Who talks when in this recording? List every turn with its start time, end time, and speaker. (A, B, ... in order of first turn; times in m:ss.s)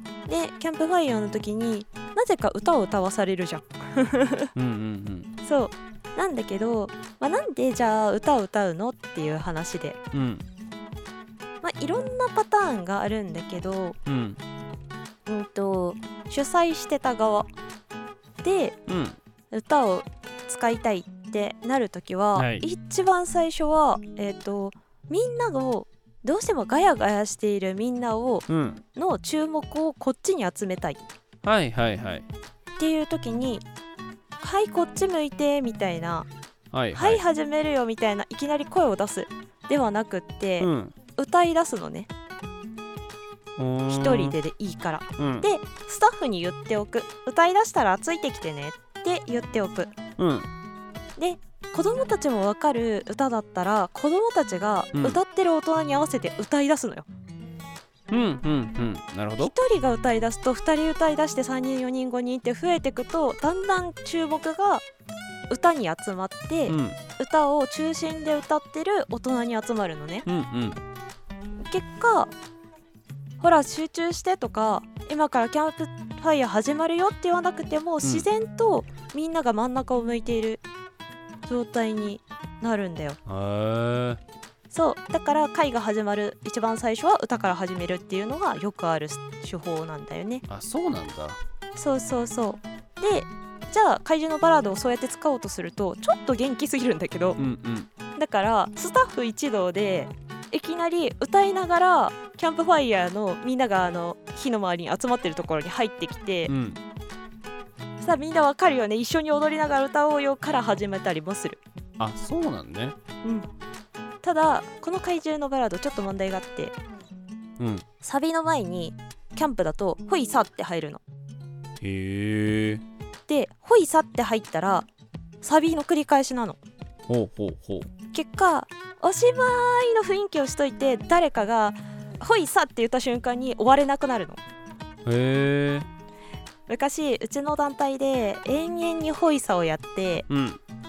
0:00.3-0:04.5 A
0:04.6-0:05.3 B
0:05.4-0:10.0 A
0:10.1-0:10.4 B
0:11.6-0:14.0 A
0:14.0-0:14.4 B
0:15.3-0:17.5 A
0:18.4-0:18.8 A
0:18.9-0:19.2 B
0:19.5-0:31.0 A
0:22.4-0:22.6 B
0:28.5-0:28.8 B
0:31.4-0:32.2 B
0:32.8-0:33.6 A
0:34.4-0:36.3 A
0:36.7-0:37.2 B
0:36.9-0:42.1 A
0:40.6-0:40.9 B
0:43.6-0:44.4 B
0:43.9-0:49.9 A
0:45.2-0:45.5 B
0:50.2-0:50.5 B
0:51.2-0:57.1 A
0:54.9-0:55.2 B
0:58.1-0:59.5 B
0:59.4-1:04.8 A
1:05.5-1:10.2 A
1:06.7-1:07.0 B
1:10.2-1:10.8 B
1:11.6-1:12.3 A
1:13.4-1:20.6 A
1:21.4-1:23.2 A
1:23.2-1:24.2 B
1:24.7-1:30.4 A
1:30.5-1:31.4 B
1:31.8-1:37.4 A
1:37.4-1:37.9 B
1:38.2-1:46.5 A
1:46.5-1:46.8 B
1:48.0-1:51.6 A
1:52.0-1:52.9 B
1:54.2-1:56.7 A
1:57.6-1:57.8 B
1:58.0-2:01.0 A
2:01.8-2:02.8 B
2:03.3-2:04.9 A
2:05.4-2:06.6 A
2:07.1-2:07.9 B
2:08.1-2:14.4 A
2:15.0-2:15.9 B
2:16.7-2:20.3 A
2:20.3-2:20.6 B